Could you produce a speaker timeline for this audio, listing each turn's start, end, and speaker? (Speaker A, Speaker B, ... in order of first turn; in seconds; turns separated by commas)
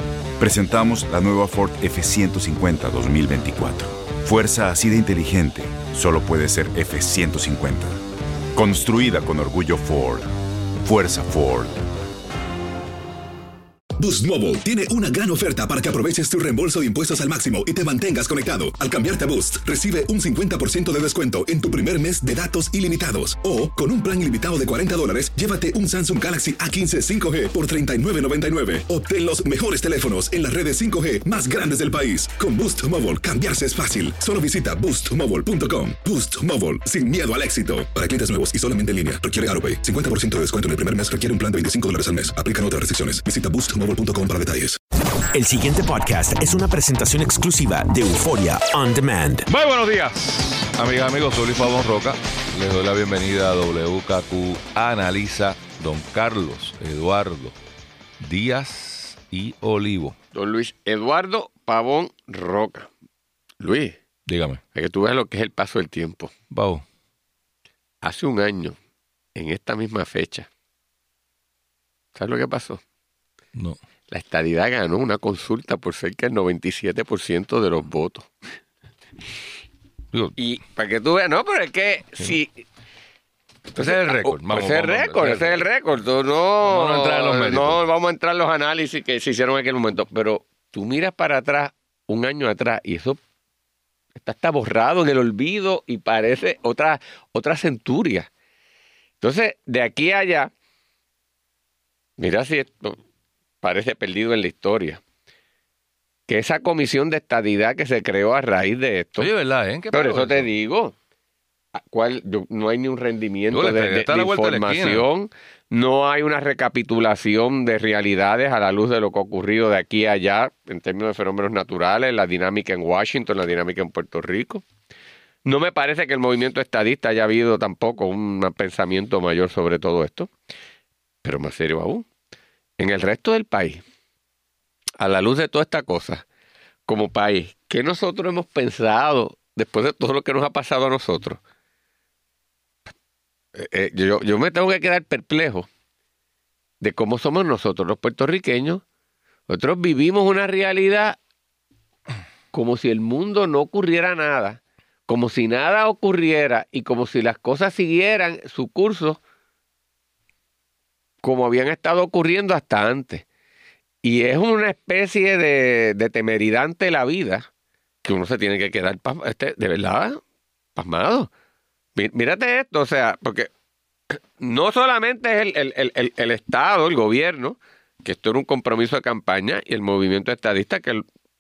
Speaker A: 0.4-7.9, Speaker A: 8.6-10.3, Speaker A: 10.8-11.8, Speaker B: 14.0-44.8, Speaker C: 45.3-49.5, Speaker D: 49.5-57.6, Speaker D: 58.2-60.2, Speaker E: 60.3-62.9, Speaker E: 63.6-64.0, Speaker D: 64.3-64.6, Speaker E: 64.8-66.3, Speaker D: 66.5-66.8, Speaker E: 68.0-68.8, Speaker E: 69.3-70.5, Speaker E: 72.1-72.8, Speaker E: 74.1-78.3, Speaker E: 80.4-82.6, Speaker D: 83.8-85.7, Speaker E: 83.8-93.2, Speaker D: 86.6-87.8, Speaker E: 94.2-98.3, Speaker E: 99.2-100.5, Speaker E: 102.2-103.0, Speaker E: 103.6-105.0, Speaker E: 106.3-109.3, Speaker D: 109.2-110.5, Speaker E: 109.9-110.9, Speaker E: 111.8-124.7, Speaker D: 113.5-115.1, Speaker E: 125.5-130.3, Speaker E: 131.2-132.1, Speaker E: 132.8-133.8, Speaker E: 135.0-136.2, Speaker E: 136.9-141.4, Speaker E: 143.5-145.7, Speaker E: 146.8-148.8, Speaker E: 149.5-151.2, Speaker E: 152.5-159.2, Speaker E: 161.2-163.2, Speaker E: 164.0-167.5, Speaker E: 168.0-170.2, Speaker E: 170.8-171.3, Speaker E: 172.0-173.5, Speaker E: 174.1-181.1